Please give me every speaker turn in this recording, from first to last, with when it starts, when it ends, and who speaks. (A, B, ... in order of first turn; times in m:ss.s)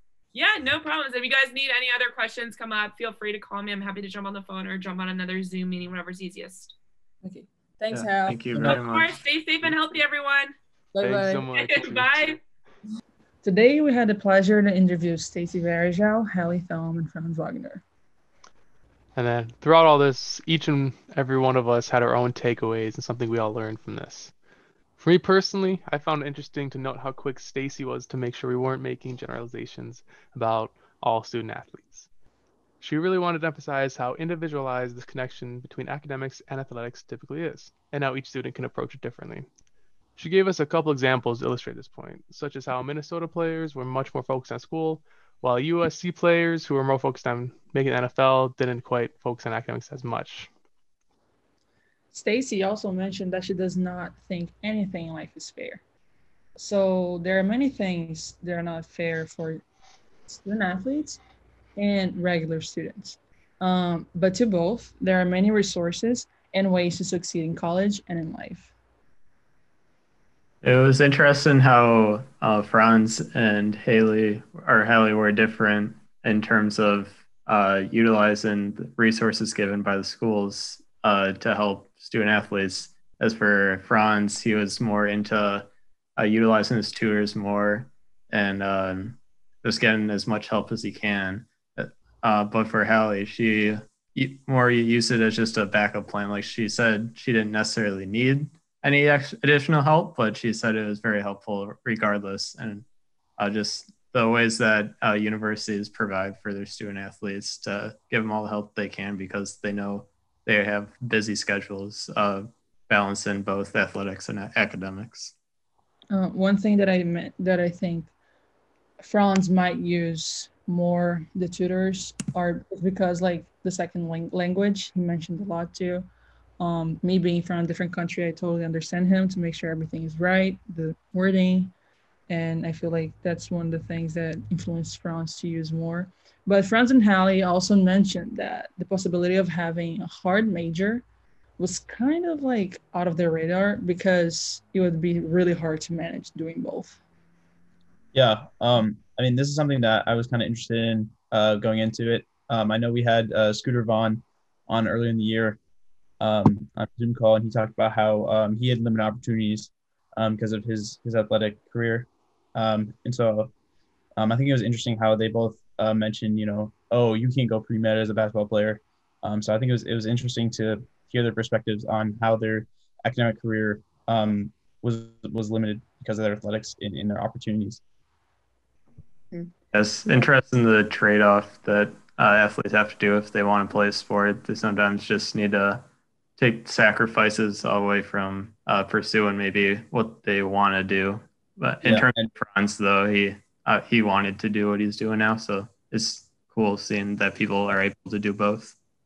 0:00.3-0:06.8 A
0:07.2-0:08.7 B
0:07.9-0:09.8 C
0:08.6-0:10.5 A
0:11.0-0:11.5 B
0:11.0-0:12.4 D
0:11.5-0:12.4 A
0:13.4-0:17.8 B
0:19.2-0:24.3 D
0:25.0-0:32.1 D
0:32.8-0:39.5 D
0:40.2-0:50.5 D
0:52.1-0:55.8 B
0:56.6-0:59.6 B
1:00.3-1:01.2 B
1:01.8-1:08.7 B
1:10.6-1:42.9 C
1:43.4-1:55.3 C
1:56.1-1:58.1 B
1:59.0-2:06.1 B
2:06.6-2:11.7 B
2:12.3-2:21.0 B
2:21.6-2:27.0 B
2:28.1-2:35.6 E
2:36.2-2:43.5 E
2:44.2-2:57.8 E
2:59.7-3:05.8 C
3:06.4-3:18.8 C
3:11.8-3:12.3 E